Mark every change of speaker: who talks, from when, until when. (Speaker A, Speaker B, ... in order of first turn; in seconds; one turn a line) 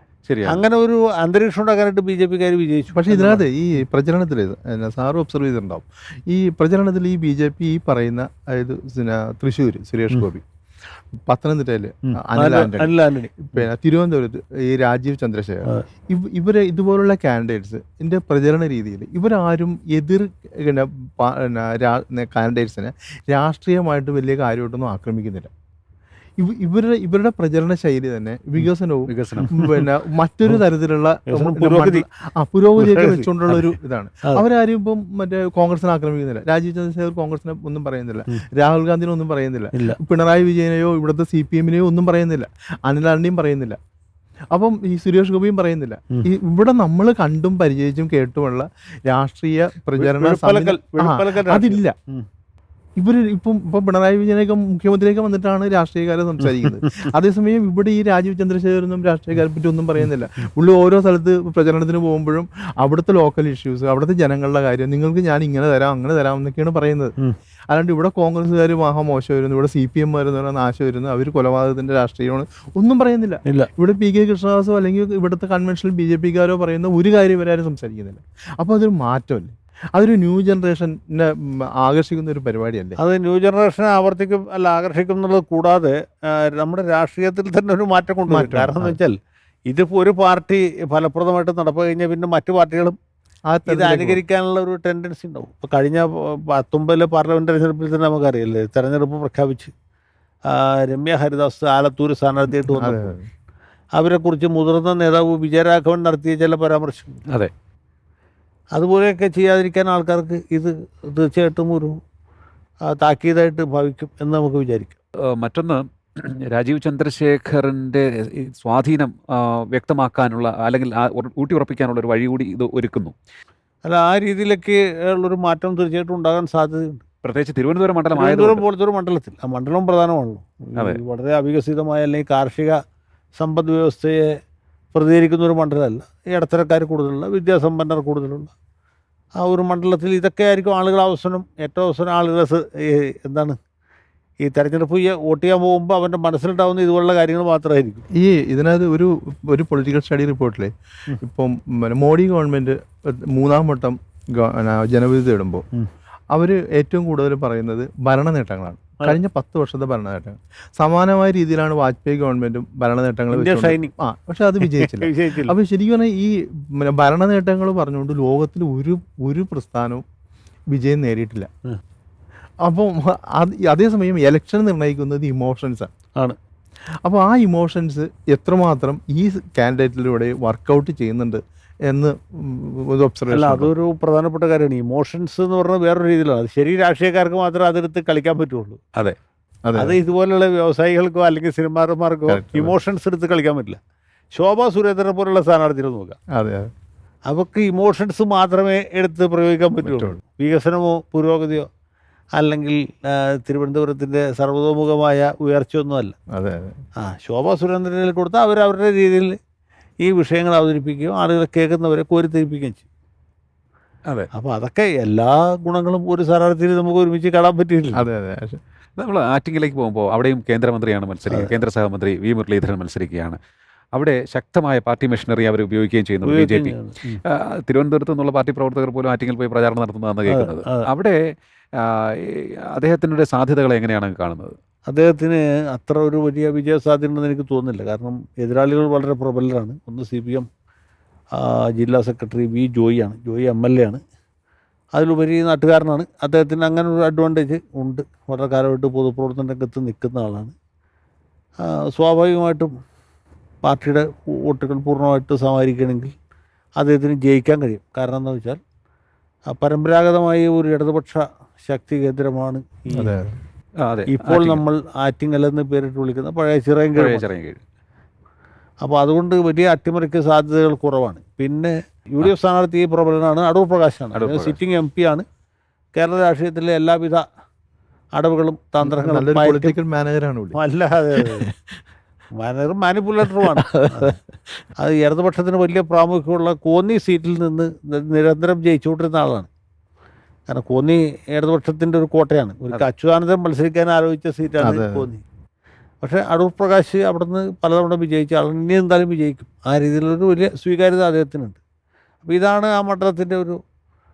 Speaker A: 0.3-0.6
Speaker B: 0.5-3.4
Speaker C: 2.9-10.4
Speaker C: 11.2-25.5
Speaker B: 12.3-13.7
Speaker C: 26.4-43.8
Speaker A: 29.1-29.5
Speaker B: 29.4-29.9
Speaker B: 31.3-32.0
Speaker B: 32.8-33.7
Speaker B: 39.7-40.0
Speaker C: 44.5-51.9
Speaker B: 50.0-52.2
Speaker C: 53.0-67.1
Speaker B: 56.6-57.0
Speaker C: 67.7-83.0
Speaker B: 83.0-89.2
Speaker C: 88.3-89.0
Speaker B: 89.7-93.0
Speaker C: 93.5-94.2
Speaker B: 93.7-99.7
Speaker B: 100.5-103.1
Speaker C: 102.6-103.3
Speaker B: 103.9-107.2
Speaker B: 108.7-111.9
Speaker B: 112.9-114.9
Speaker A: 115.3-123.1
Speaker B: 123.8-127.0
Speaker A: 127.2-128.6
Speaker B: 128.1-132.8
Speaker B: 133.3-134.4
Speaker B: 134.9-138.5
Speaker B: 139.4-143.6
Speaker B: 144.4-148.0
Speaker C: 148.2-152.8
Speaker C: 153.3-155.6
Speaker C: 156.3-170.0
Speaker B: 163.3-163.9
Speaker B: 164.6-165.5
Speaker C: 170.7-171.5
Speaker C: 172.6-175.9
Speaker C: 177.0-183.7
Speaker B: 183.3-188.8
Speaker C: 189.7-190.0
Speaker B: 189.8-193.8
Speaker C: 192.3-192.7
Speaker B: 194.3-196.2
Speaker C: 196.3-196.7
Speaker B: 197.3-201.7
Speaker C: 199.8-200.2
Speaker B: 202.3-206.1
Speaker C: 206.3-206.8
Speaker B: 207.0-209.3
Speaker B: 210.0-212.8
Speaker B: 214.3-218.1
Speaker C: 217.9-218.6
Speaker A: 219.0-223.4
Speaker B: 221.3-221.5
Speaker A: 223.9-226.7
Speaker B: 226.2-227.2
Speaker A: 227.3-231.2
Speaker B: 230.3-230.9
Speaker A: 231.8-234.5
Speaker B: 234.9-240.5
Speaker B: 241.4-244.0
Speaker B: 244.9-250.5
Speaker B: 251.6-252.7
Speaker B: 253.6-256.1
Speaker B: 256.8-258.6
Speaker B: 259.5-263.1
Speaker C: 262.9-263.3
Speaker A: 263.8-264.6
Speaker B: 264.1-267.2
Speaker A: 266.9-267.6
Speaker B: 268.8-275.2
Speaker A: 274.1-274.6
Speaker B: 275.9-277.2
Speaker B: 278.1-279.8
Speaker C: 278.8-280.6
Speaker B: 280.5-281.5
Speaker C: 281.2-281.5
Speaker B: 282.4-284.2
Speaker C: 283.6-284.1
Speaker B: 284.8-289.5
Speaker B: 290.5-295.2
Speaker C: 294.6-295.1
Speaker B: 296.0-301.6
Speaker B: 302.2-303.6